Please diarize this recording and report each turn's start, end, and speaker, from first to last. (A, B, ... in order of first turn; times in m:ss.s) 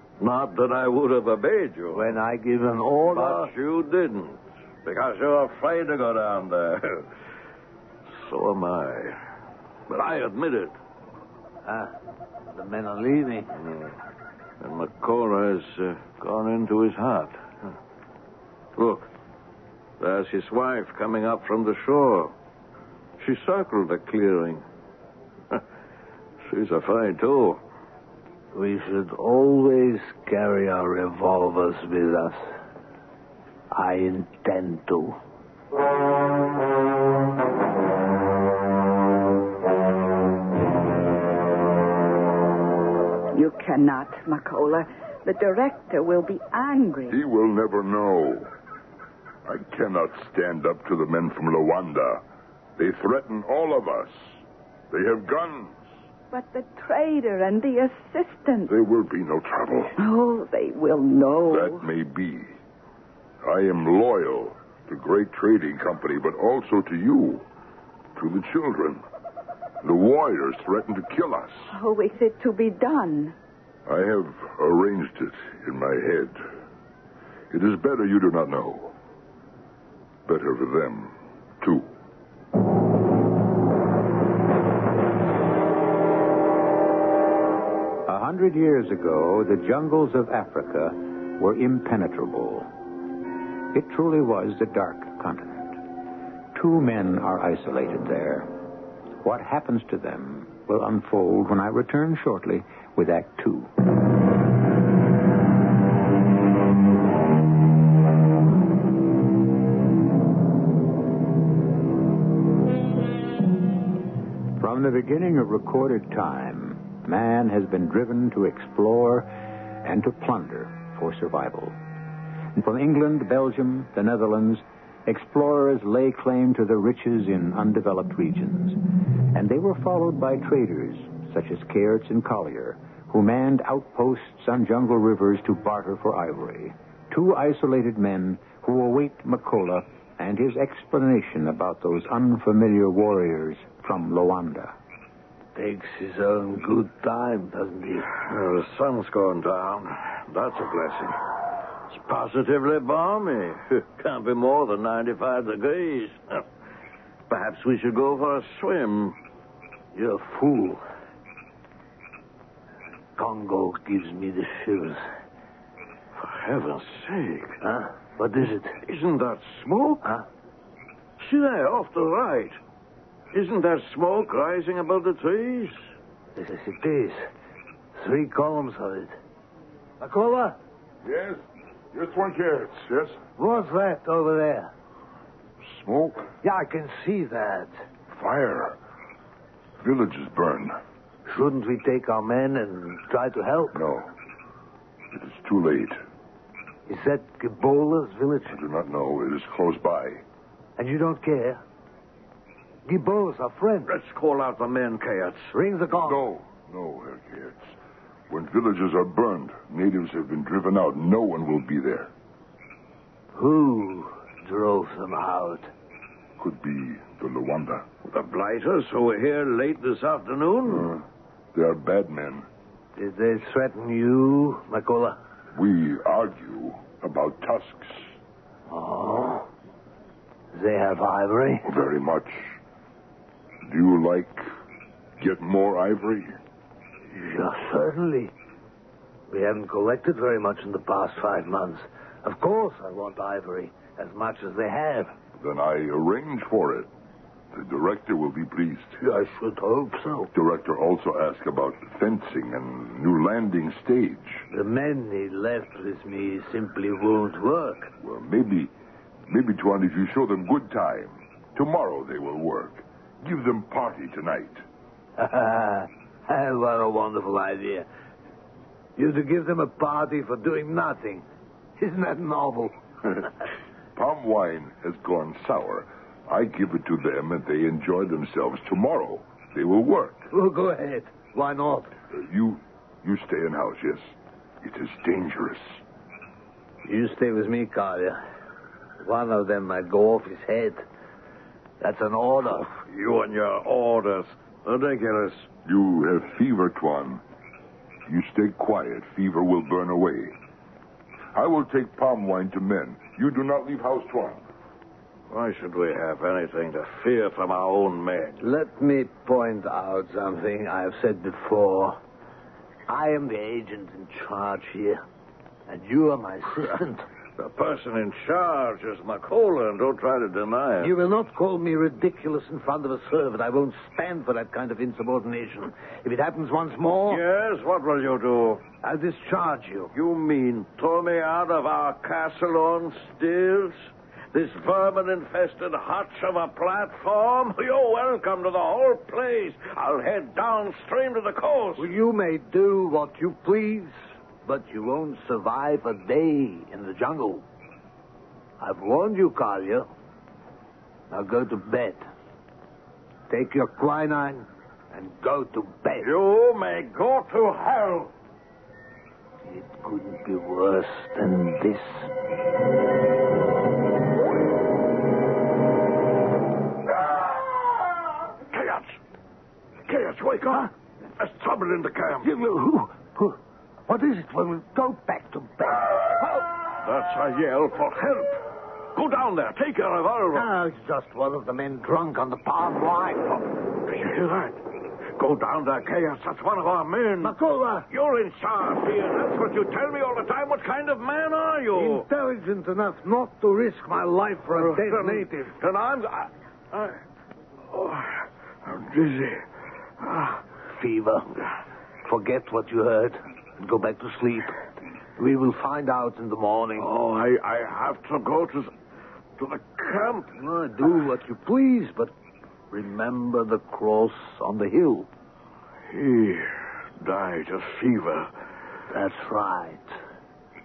0:00.2-0:02.2 A
0:01.9-0:03.5 B
0:03.1-0:07.1 A
0:08.2-0:09.2 A
0:09.9-0:10.7 A
0:11.6-0:11.9 B
0:12.5-0:13.5 B
0:13.6-0:13.9 A
0:14.6-0:17.4 A
0:18.8-0:19.1 A
0:20.0-0:22.3 A
0:23.2-0:24.6 A
0:26.5-0:27.6 A
0:28.5-0:32.4 B
0:33.7-0:35.2 B
0:43.3-0:47.2 C
0:47.1-0:48.5 D
0:49.4-0:52.2 D
0:52.8-0:54.4 D
0:54.9-0:55.8 D
0:56.3-0:58.7 C
0:58.7-1:00.0 D
1:00.0-1:01.9 C
1:01.5-1:02.6 D
1:03.4-1:07.4 D
1:08.2-1:09.0 D
1:09.8-1:11.7 D
1:11.7-1:13.4 C
1:13.9-1:16.4 D
1:17.5-1:18.9 D
1:20.2-1:21.9 D
1:28.0-1:32.7 E
1:33.7-1:35.8 E
1:36.5-1:38.5 E
1:39.2-1:43.7 E
1:54.6-2:01.8 E
2:02.6-2:08.8 E
2:09.3-2:24.7 E
2:25.5-2:28.1 B
2:28.1-2:31.2 A
2:31.9-2:36.4 A
2:37.3-2:39.2 A
2:39.9-2:40.8 B
2:43.2-2:45.0 B
2:46.2-2:47.6 A
2:47.6-2:48.8 B
2:48.8-2:50.1 A
2:51.2-2:52.5 A
2:53.3-2:55.8 A
2:56.4-2:57.2 B
2:58.0-2:59.2 B
3:00.0-3:00.6 B
3:01.0-3:01.4 D
3:01.9-3:03.2 D
3:03.4-3:04.7 B
3:05.7-3:06.3 D
3:06.4-3:07.7 B
3:08.1-3:08.8 D
3:09.8-3:10.8 D
3:11.3-3:13.8 B
3:13.7-3:14.1 D
3:15.1-3:16.0 D
3:16.9-3:18.6 B
3:18.5-3:20.2 D
3:20.8-3:21.6 B
3:22.8-3:23.9 B
3:23.9-3:25.5 A
3:25.5-3:26.2 B
3:26.0-3:27.7 D
3:28.3-3:32.1 D
3:33.3-3:35.7 B
3:36.4-3:37.8 D
3:38.0-3:40.9 A
3:40.7-3:41.0 D
3:41.5-3:42.4 D
3:43.0-3:45.2 B
3:45.5-3:48.1 D
3:48.7-3:49.4 B
3:50.5-3:51.7 B
3:51.6-3:52.6 D
3:53.6-3:54.4 D
3:55.2-3:56.4 D
3:57.1-3:58.3 B
3:59.3-4:05.1 B
4:05.4-4:06.9 D
4:07.5-4:08.9 D
4:09.0-4:10.3 B
4:10.3-4:14.4 D
4:14.5-4:17.9 B
4:18.0-4:18.7 D
4:19.3-4:24.6 D
4:25.2-4:27.9 B
4:29.0-4:31.2 B
4:31.8-4:32.7 B
4:34.0-4:40.2 D
4:40.3-4:41.9 B
4:42.1-4:45.8 D
4:46.8-4:48.2 B
4:49.0-4:50.8 B
4:51.8-4:52.7 B
4:52.8-4:55.5 A
4:55.6-4:57.2 D
4:58.1-5:00.3 D
5:01.3-5:04.4 D
5:05.3-5:08.4 A
5:08.4-5:12.0 B
5:12.9-5:15.0 B
5:15.7-5:17.0 B
5:17.4-5:20.9 A
5:20.8-5:27.2 B
5:27.1-5:28.6 A
5:28.8-5:29.9 B
5:29.9-5:33.8 A
5:34.3-5:41.9 A
5:41.8-5:43.9 B
5:44.4-5:47.4 B
5:48.6-5:49.9 B
5:51.1-5:52.0 B
5:53.3-5:56.1 B
5:56.0-5:58.1 A
5:59.4-6:02.1 B
6:08.5-6:09.0 A
6:09.9-6:12.3 A
6:12.2-6:16.5 B
6:16.8-6:18.4 A
6:18.9-6:20.5 A
6:20.3-6:23.4 B
6:23.8-6:24.6 A
6:25.2-6:27.4 A
6:27.2-6:27.9 B
6:27.9-6:32.0 A
6:31.7-6:35.5 B
6:34.6-6:37.0 A
6:37.7-6:39.4 A
6:40.0-6:40.4 A
6:40.8-6:41.3 B
6:42.0-6:44.6 B
6:45.2-6:46.9 B
6:46.8-6:48.7 A
6:49.4-6:50.3 A
6:50.4-6:52.1 B
6:52.7-6:55.1 B
6:55.9-6:58.3 A
6:58.9-6:59.9 B